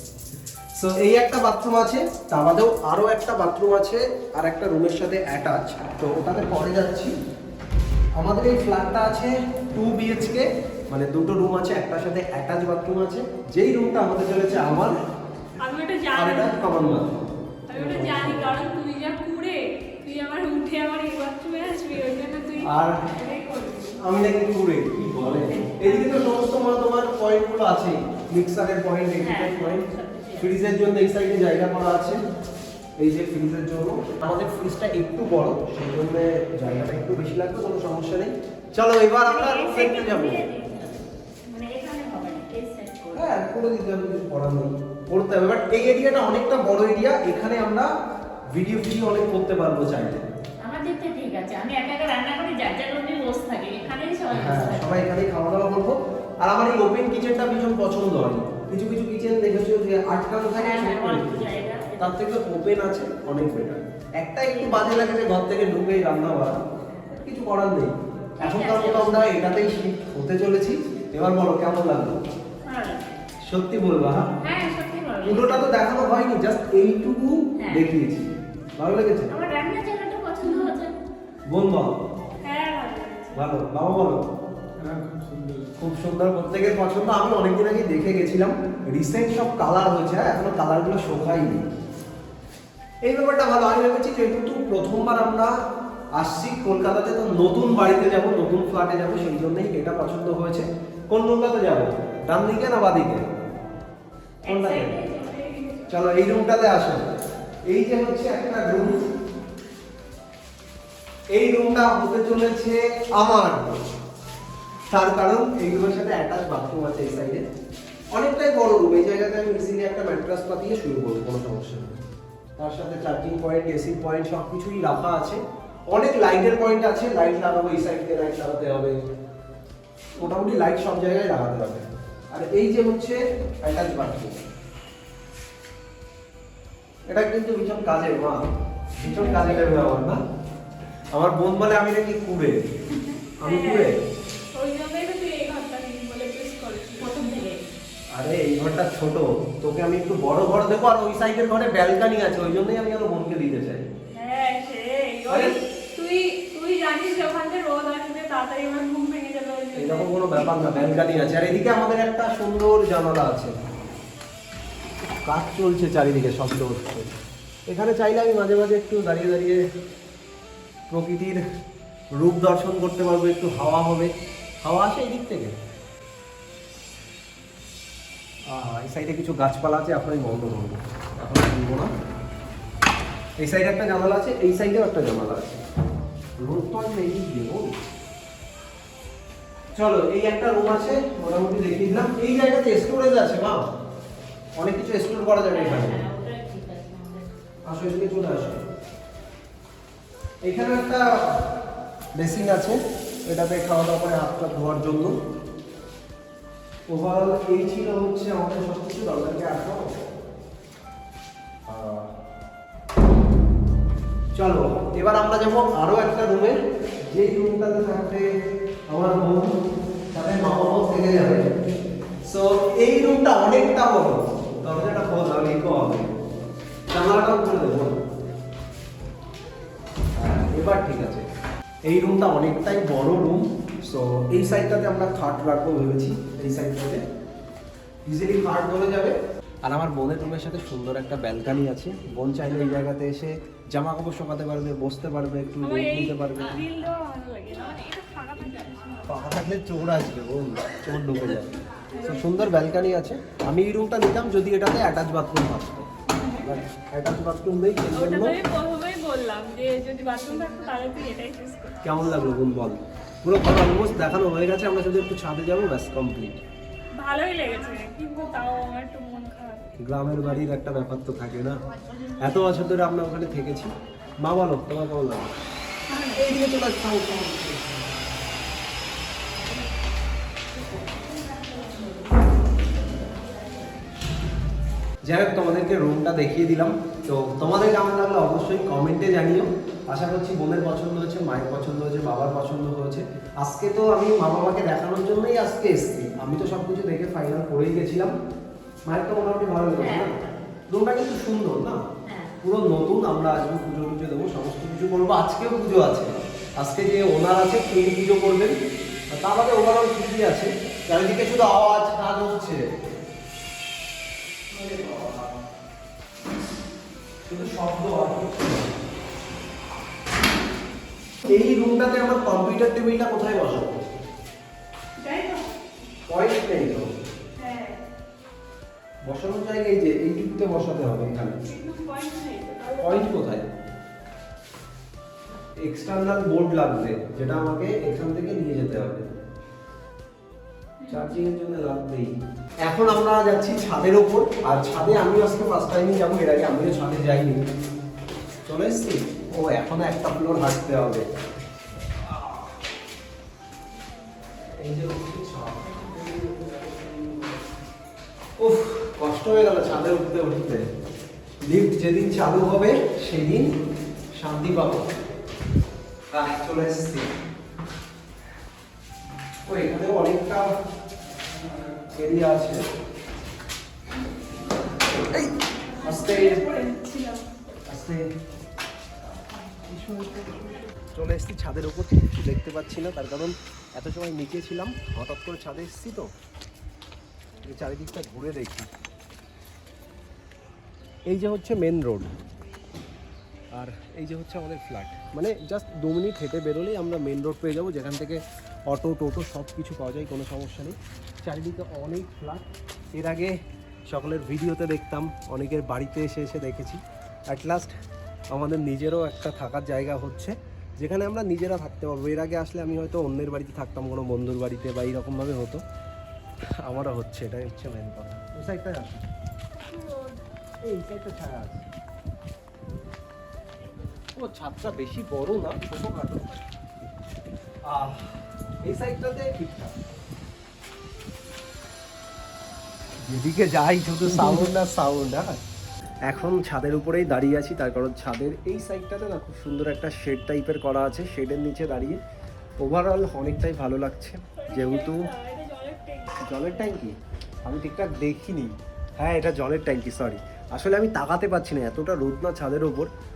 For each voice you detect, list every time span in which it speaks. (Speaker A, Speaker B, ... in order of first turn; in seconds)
Speaker A: 0.8-7.1, 8.2-15.0, 16.1-17.2, 17.7-18.6, 22.6-23.0, 24.0-29.8, 30.4-32.2, 33.0-40.4, 43.1-47.9, 48.5-50.2, 54.3-61.5, 62.0-72.2, 73.5-74.3, 75.2-79.3, 81.5-81.9, 83.3-84.2, 85.8-91.6, 93.0-95.5, 96.1-103.3, 104.5-104.9, 105.9-107.1, 107.7-109.0, 111.3-113.8, 114.9-117.4, 118.1-122.0, 122.6-125.4, 125.9-128.9, 130.2-134.4, 137.1-140.2, 141.1-142.6, 143.4-143.9, 148.1-153.9, 155.3-155.5, 159.7-163.5, 165.2-167.1, 167.7-169.6, 170.9-171.4, 172.2-174.1, 174.6-175.5, 178.5-181.9, 183.4-185.6, 186.4-187.8, 189.8-193.6, 194.6-196.0, 197.7-198.6, 200.4-201.4, 202.2-205.2, 206.9-209.9, 211.7-212.1, 214.3-216.6, 217.1-218.3, 218.9-219.6, 220.1-221.5, 222.2-226.2, 226.9-228.0, 230.2-231.2, 231.8-237.0, 238.1-246.6, 249.1-255.9, 256.4-258.4, 261.8-266.4, 269.8-271.6, 272.2-273.7, 274.2-275.3, 276.1-277.9, 285.0-298.1, 298.9-300.1, 300.7-301.8, 302.4-308.5, 309.1-312.6, 314.5-315.4, 317.3-318.6, 321.2-323.8, 326.1-326.9, 329.0-331.4, 332.8-333.5, 335.6-339.1, 340.9-342.1, 342.6-347.4, 348.4-351.0, 352.1-352.5, 354.6-357.4, 358.4-360.6, 361.4-363.5, 364.1-364.9, 366.1-367.1, 369.4-370.5, 371.9-372.6, 375.8-376.4, 377.7-378.0, 379.6-386.1, 387.4-388.7, 391.1-392.1, 393.5-403.3, 403.9-407.7, 408.3-415.6, 416.6-419.1, 420.6-421.6, 424.1-426.3, 427.6-429.7, 433.0-435.4, 436.0-442.0, 442.6-445.1, 446.2-452.9
Speaker B: 15.6-16.6, 17.7-24.0, 25.8-26.3, 80.4-80.7, 82.4-83.5, 84.8-85.7, 104.5-106.0, 139.1-139.6, 143.4-143.9, 144.5-147.2, 154.1-160.9, 245.6-249.2, 251.9-252.5, 256.1-256.5, 257.9-261.8, 267.0-269.6, 275.9-276.3, 325.0-325.5, 327.4-327.8, 331.4-333.1, 340.8-341.2, 375.8-377.2, 419.6-420.1, 444.4-446.6
Speaker C: 29.2-30.5, 39.2-43.3, 50.6-54.9, 60.5-62.2, 64.5-64.8, 66.8-67.1, 68.4-69.3, 72.6-73.2, 74.4-75.7, 77.6-77.9, 79.3-80.9, 147.0-147.6, 195.5-197.3, 280.8-283.6, 299.8-300.4, 302.0-302.3